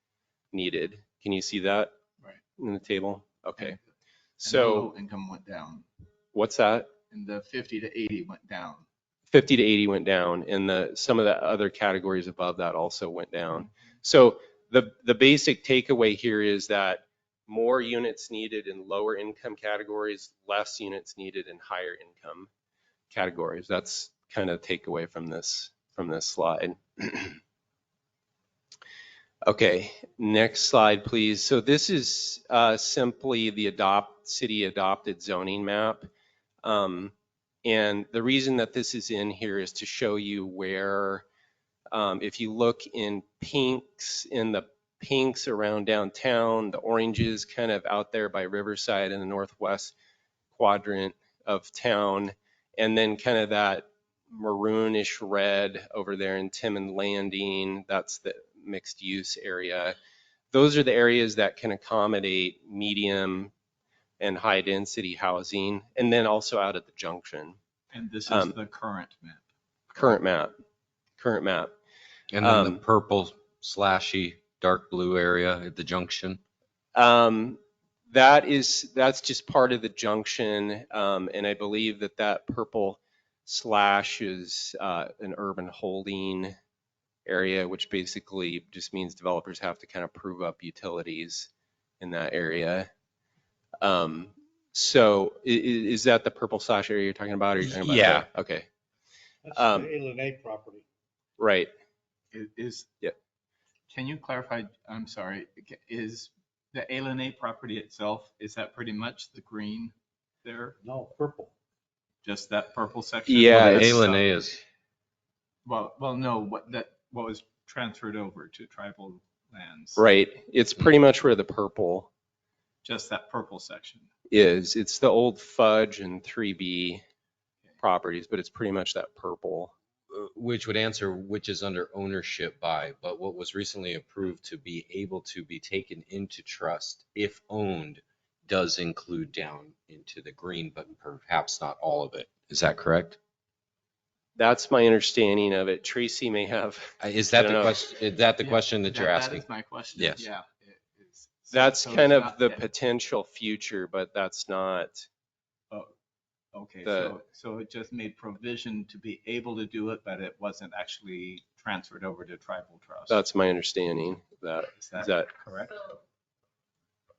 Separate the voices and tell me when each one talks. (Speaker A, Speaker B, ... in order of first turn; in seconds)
Speaker A: 0.5-1.9, 2.6-3.8, 4.4-4.9, 6.3-6.9, 9.3-22.5, 23.1-27.4, 29.4-36.1, 36.6-41.2, 41.9-49.9, 50.5-60.0, 60.5-63.5, 64.2-67.6, 68.3-68.5, 69.9-70.5, 71.2-71.7, 72.4-72.8, 76.9-86.5, 87.2-92.9, 93.8-98.7, 99.5-99.9, 101.4-101.7, 113.3-114.0, 120.0-122.1, 124.3-127.0, 127.8-129.7, 144.3-147.8, 151.5-155.1, 156.8-157.1, 163.1-165.3
Speaker B: 4.4-5.8, 7.1-8.8, 67.9-69.4, 102.3-102.9, 103.9-109.9, 110.4-110.7, 112.2-114.3, 115.6-120.0, 122.8-124.1, 148.4-152.6, 156.5-163.2, 164.8-165.8
Speaker C: 72.3-76.4, 97.6-98.2, 113.5-114.6, 130.1-143.2, 147.0-150.2
Speaker D: 99.4-100.8, 110.8-111.5